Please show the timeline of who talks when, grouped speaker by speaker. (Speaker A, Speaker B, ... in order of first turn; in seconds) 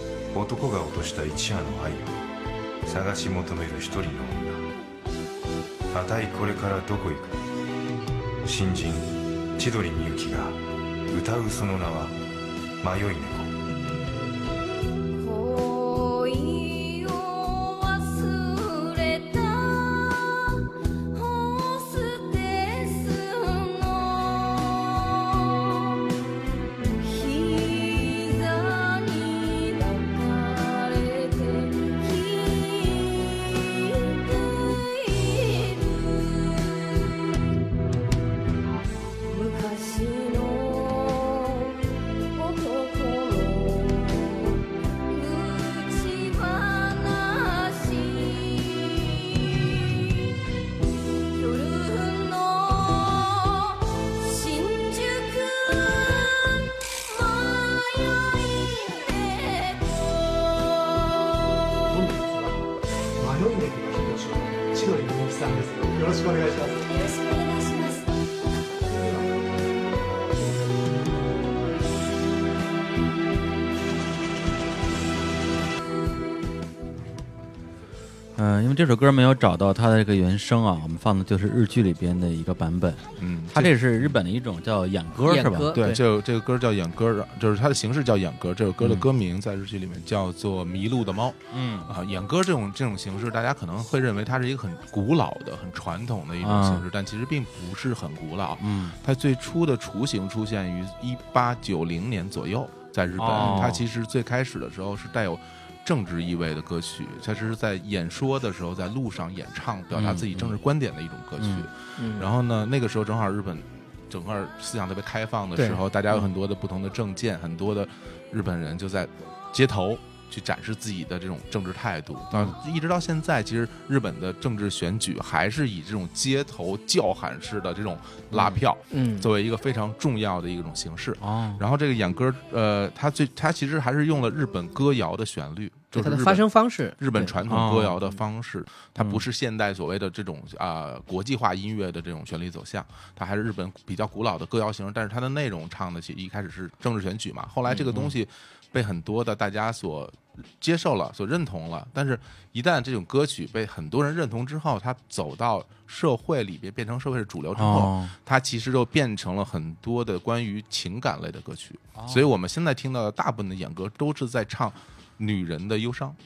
Speaker A: 0.3-2.2, 2.9-4.7, 5.9-7.4, 8.4-12.2, 12.8-13.5
Speaker B: 15.2-26.0, 27.0-37.2, 39.3-41.8, 42.3-50.4, 51.3-61.7, 67.0-68.1
Speaker C: 61.8-67.1, 68.8-69.4, 70.4-71.4
Speaker D: 78.4-85.8, 88.8-89.1, 91.5-92.0, 96.4-96.8, 98.6-99.0, 103.2-103.8, 109.9-110.6, 111.4-111.7, 131.2-131.6, 137.4-138.0, 157.6-158.2, 162.0-162.3
Speaker E: 83.2-84.2, 85.8-136.4, 137.0-166.2
Speaker F: 85.2-86.0, 112.0-112.3, 115.6-116.3, 128.9-129.3, 135.9-137.3